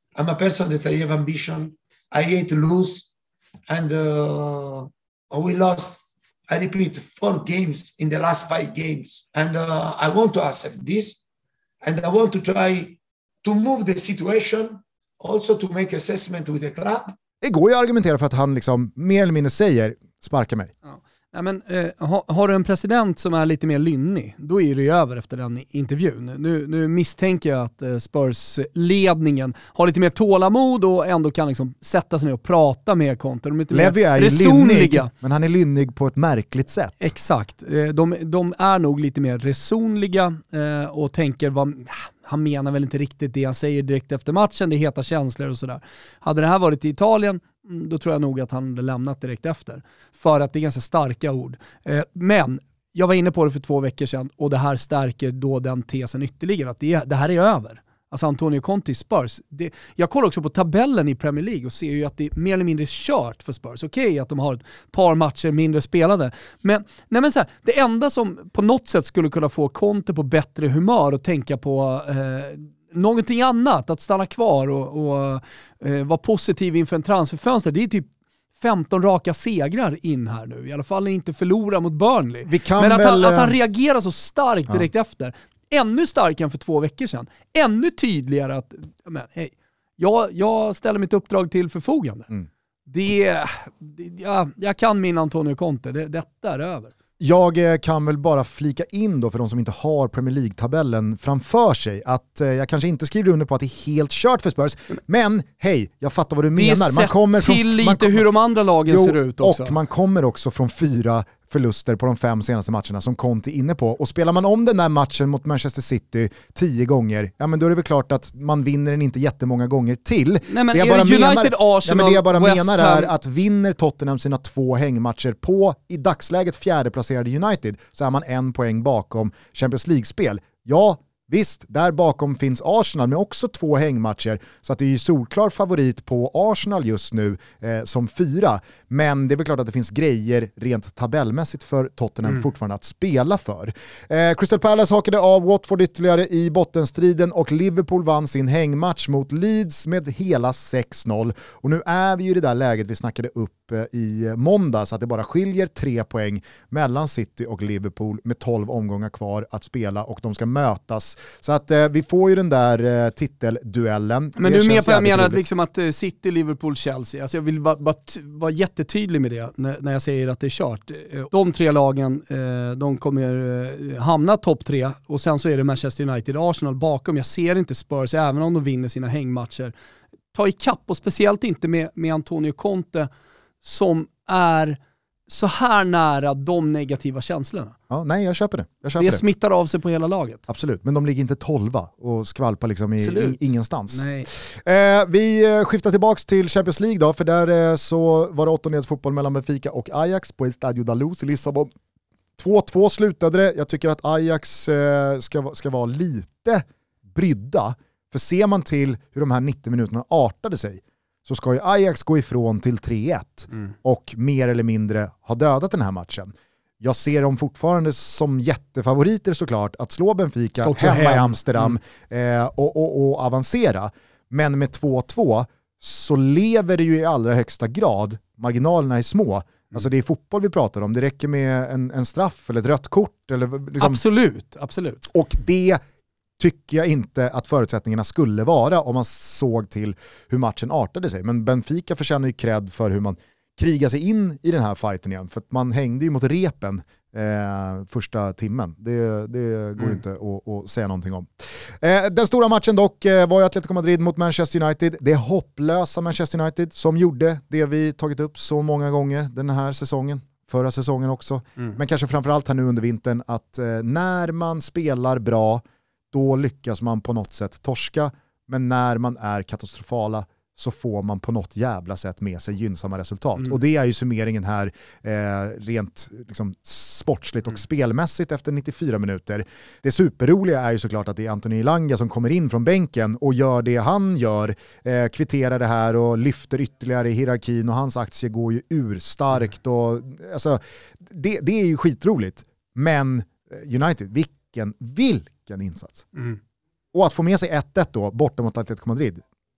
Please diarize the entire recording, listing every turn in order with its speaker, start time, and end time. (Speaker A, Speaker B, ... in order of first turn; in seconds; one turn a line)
Speaker A: 0.2-3.1
Speaker A: 3.7-11.2
Speaker A: 11.8-17.1
Speaker B: 17.4-20.7
Speaker C: 20.9-35.1
Speaker B: 33.7-37.1
Speaker C: 37.0-78.1
Speaker C: 78.6-92.3
Speaker B: 82.5-83.6
Speaker C: 92.9-96.9
Speaker B: 97.2-108.2
Speaker C: 106.6-109.8
Speaker B: 108.9-165.4
Speaker C: 120.5-123.1
Speaker C: 164.4-179.7
Speaker C: 180.3-183.1
Speaker C: 183.6-187.8
Speaker B: 187.9-189.2
Speaker C: 189.0-190.4
Speaker B: 190.5-201.7
Speaker C: 193.0-194.3
Speaker B: 202.4-234.0
Speaker C: 220.6-221.7
Speaker C: 233.8-235.0
Speaker B: 235.1-235.8
Speaker B: 236.4-296.1
Speaker B: 296.9-299.2